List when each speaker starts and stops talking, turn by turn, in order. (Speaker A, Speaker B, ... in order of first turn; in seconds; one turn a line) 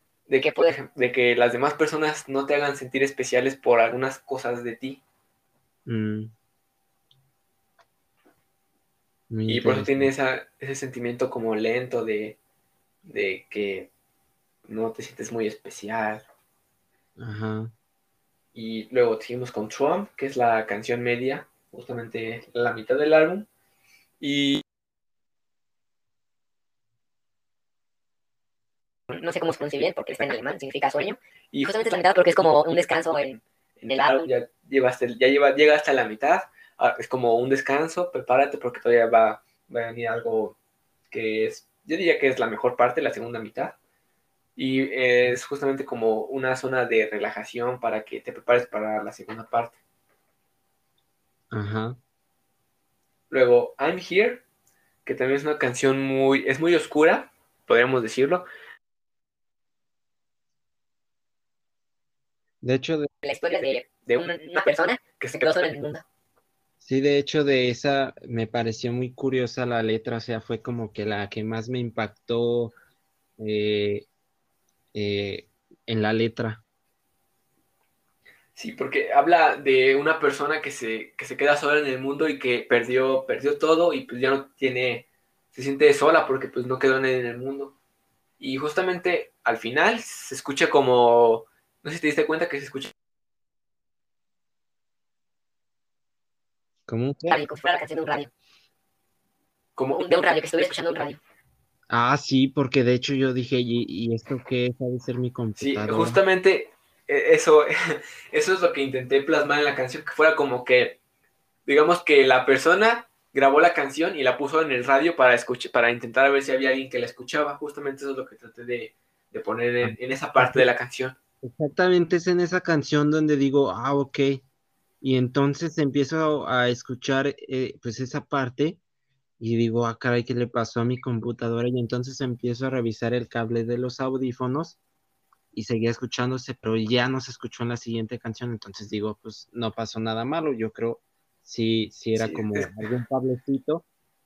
Speaker A: 0.3-5.0
Speaker B: 0.4-0.7
Speaker C: 5.8-6.3
Speaker C: 9.3-10.1
Speaker A: 9.5-12.4
Speaker A: 13.0-13.9
Speaker A: 14.7-16.2
Speaker C: 17.2-17.7
Speaker A: 18.5-23.5
Speaker A: 24.2-24.6
Speaker B: 29.1-34.3
Speaker A: 31.5-31.9
Speaker A: 33.8-40.6
Speaker A: 41.1-43.8
Speaker A: 44.5-49.8
Speaker C: 51.5-52.0
Speaker A: 53.3-54.4
Speaker A: 55.0-58.4
Speaker C: 62.6-63.1
Speaker B: 63.2-66.0
Speaker A: 64.0-64.3
Speaker A: 65.2-65.5
Speaker C: 66.8-72.7
Speaker C: 73.4-74.1
Speaker C: 74.9-76.6
Speaker A: 78.5-87.7
Speaker A: 88.4-92.9
Speaker C: 96.9-97.4
Speaker B: 97.3-98.3
Speaker A: 99.8-100.0
Speaker B: 100.0-101.2
Speaker C: 101.9-106.2
Speaker A: 105.6-111.0
Speaker A: 111.7-121.2
Speaker C: 119.8-120.7
Speaker C: 121.4-124.4
Speaker C: 125.0-128.8
Speaker C: 129.4-134.8
Speaker C: 135.5-143.8
Speaker A: 142.1-142.9